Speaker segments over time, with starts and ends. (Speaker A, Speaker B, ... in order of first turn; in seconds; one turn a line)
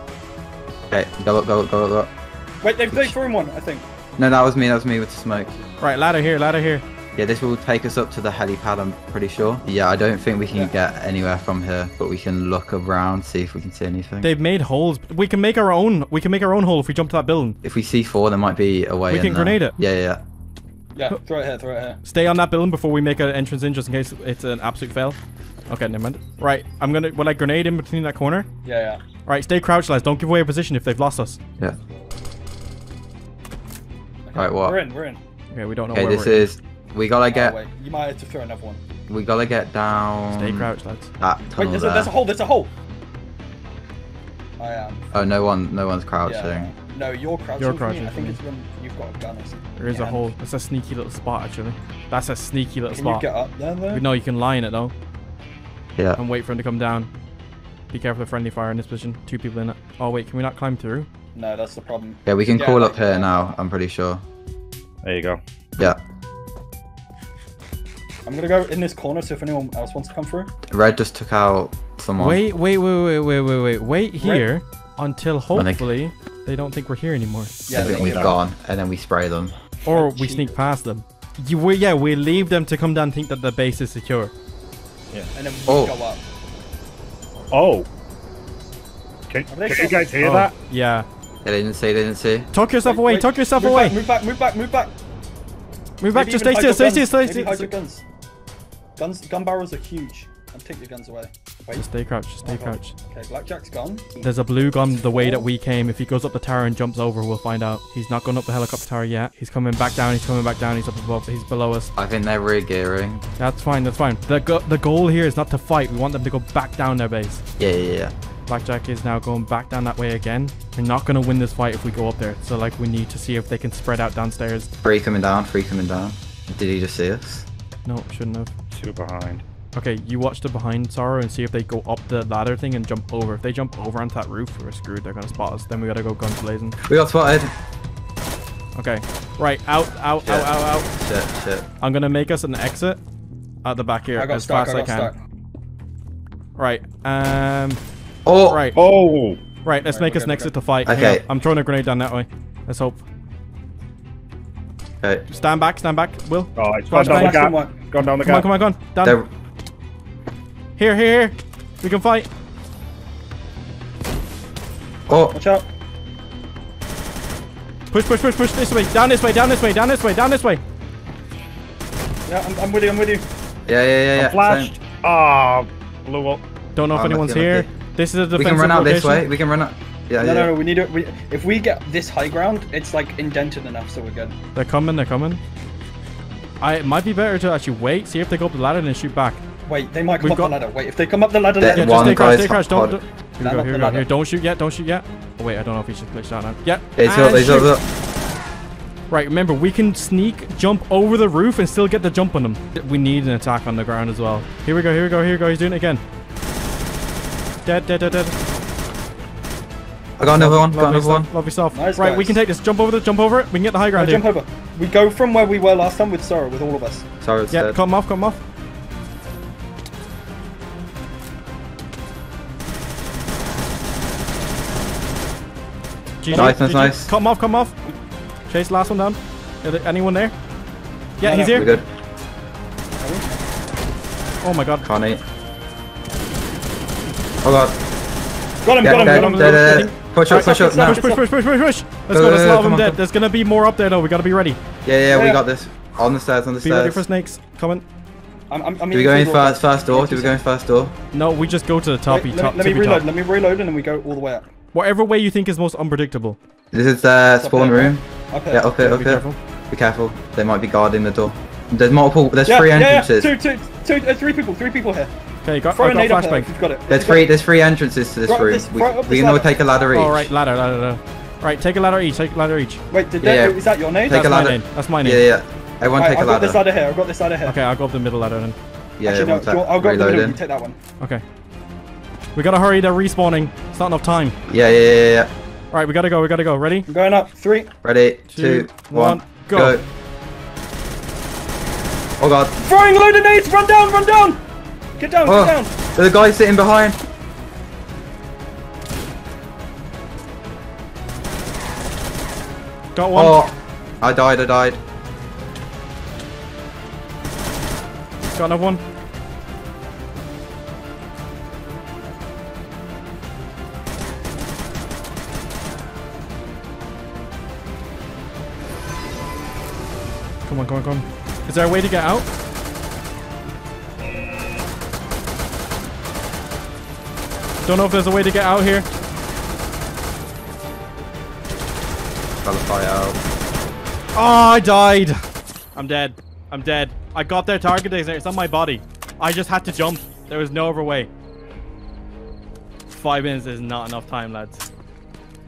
Speaker A: 0.9-2.1
Speaker B: 2.6-3.9
Speaker A: 4.2-5.6
Speaker C: 5.8-6.8
Speaker A: 7.1-14.3
Speaker C: 14.2-17.6
Speaker A: 17.6-20.2
Speaker C: 19.1-19.8
Speaker B: 20.9-22.0
Speaker C: 22.0-25.2
Speaker C: 25.7-28.5
Speaker B: 28.6-29.0
Speaker C: 29.3-31.4
Speaker B: 34.2-35.2
Speaker A: 34.3-34.8
Speaker C: 35.5-36.5
Speaker A: 35.9-37.5
Speaker B: 37.3-38.8
Speaker A: 39.1-40.7
Speaker C: 40.3-41.1
Speaker A: 41.2-42.1
Speaker B: 41.6-42.7
Speaker B: 44.6-45.0
Speaker A: 45.1-46.7
Speaker B: 46.2-50.3
Speaker C: 47.6-48.4
Speaker C: 49.8-53.2
Speaker B: 52.9-54.0
Speaker C: 53.9-54.9
Speaker C: 56.1-57.1
Speaker C: 57.9-61.1
Speaker B: 61.3-63.3
Speaker A: 62.2-64.2
Speaker D: 65.0-65.4
Speaker B: 68.2-70.5
Speaker A: 70.7-72.4
Speaker C: 72.2-77.6
Speaker B: 74.2-74.5
Speaker A: 75.5-75.9
Speaker B: 77.7-78.3
Speaker A: 77.7-79.5
Speaker D: 77.7-78.3
Speaker C: 79.8-84.3
Speaker B: 79.9-80.5
Speaker B: 85.3-86.2
Speaker A: 85.7-86.0
Speaker D: 87.5-87.9
Speaker D: 89.3-90.5
Speaker B: 89.5-90.1
Speaker C: 90.2-91.1
Speaker A: 91.4-92.5
Speaker C: 92.5-94.0
Speaker B: 92.8-94.9
Speaker C: 96.0-97.7
Speaker B: 96.1-98.0
Speaker B: 99.0-101.8
Speaker C: 101.8-102.9
Speaker B: 102.4-104.3
Speaker C: 104.2-111.9
Speaker B: 105.1-105.4
Speaker A: 112.0-113.2
Speaker C: 113.4-117.4
Speaker A: 117.6-118.1
Speaker C: 118.5-124.7
Speaker A: 124.8-127.5
Speaker C: 127.8-128.5
Speaker D: 128.7-129.4
Speaker C: 129.8-136.8
Speaker A: 136.9-137.5
Speaker C: 138.8-140.9
Speaker A: 140.2-141.7
Speaker C: 141.8-143.0
Speaker C: 143.6-145.1
Speaker B: 144.2-145.2
Speaker C: 146.6-147.8
Speaker A: 148.2-148.6
Speaker C: 148.5-148.8
Speaker D: 148.7-149.4
Speaker C: 149.6-153.0
Speaker B: 149.8-150.5
Speaker A: 150.8-151.2
Speaker C: 155.3-157.4
Speaker D: 156.6-158.5
Speaker B: 157.0-157.8
Speaker C: 158.2-159.2
Speaker A: 159.0-159.3
Speaker C: 160.8-162.3
Speaker A: 165.1-165.4
Speaker B: 165.3-165.7
Speaker C: 167.9-170.6
Speaker B: 172.3-173.2
Speaker A: 173.7-174.7
Speaker D: 174.1-176.4
Speaker C: 176.8-179.3
Speaker A: 176.9-177.7
Speaker A: 178.3-180.6
Speaker B: 180.2-184.3
Speaker C: 184.5-185.4
Speaker C: 186.6-189.4
Speaker B: 189.7-192.5
Speaker C: 190.2-190.5
Speaker A: 191.6-193.0
Speaker C: 191.6-197.7
Speaker B: 193.4-194.1
Speaker A: 197.0-197.8
Speaker C: 199.1-206.0
Speaker C: 207.6-208.3
Speaker A: 210.2-211.3
Speaker C: 210.3-214.2
Speaker B: 211.7-212.4
Speaker B: 213.9-217.1
Speaker A: 217.2-217.8
Speaker C: 217.5-218.4
Speaker C: 226.2-227.8
Speaker B: 226.3-226.9
Speaker A: 226.3-227.1
Speaker C: 228.5-230.3
Speaker C: 231.2-231.7
Speaker B: 231.2-231.8
Speaker A: 231.5-231.8
Speaker B: 233.0-233.3
Speaker C: 234.4-234.8
Speaker A: 234.8-235.2
Speaker A: 237.4-237.8
Speaker B: 238.6-241.2
Speaker A: 238.8-241.0
Speaker C: 238.8-244.6
Speaker A: 242.1-243.0
Speaker A: 244.8-247.0
Speaker B: 245.1-245.4
Speaker C: 246.6-247.8
Speaker B: 248.5-250.4
Speaker A: 248.9-250.9
Speaker C: 251.1-253.1
Speaker B: 252.1-254.5
Speaker C: 254.7-256.4
Speaker A: 256.7-263.3
Speaker B: 257.4-258.7
Speaker C: 258.8-259.4
Speaker B: 262.4-265.1
Speaker C: 265.4-266.5
Speaker B: 265.7-267.3
Speaker A: 266.9-270.3
Speaker B: 268.2-269.5
Speaker C: 269.9-272.8
Speaker B: 272.9-274.3
Speaker A: 273.2-276.6
Speaker C: 274.1-275.2
Speaker B: 276.0-277.6
Speaker C: 277.4-278.6
Speaker A: 279.0-280.4
Speaker B: 279.0-280.8
Speaker C: 282.3-284.4
Speaker A: 284.5-285.3
Speaker C: 285.7-286.9
Speaker B: 286.9-287.7
Speaker A: 287.8-289.9
Speaker C: 288.3-289.8
Speaker A: 292.2-292.6
Speaker B: 292.6-294.4
Speaker B: 294.9-295.7
Speaker A: 295.2-297.0
Speaker C: 302.9-303.4
Speaker A: 303.1-304.8
Speaker C: 308.3-308.8
Speaker C: 320.4-322.3
Speaker C: 327.6-328.9
Speaker A: 332.4-333.2
Speaker C: 334.1-335.2
Speaker C: 335.7-341.1
Speaker C: 342.9-344.6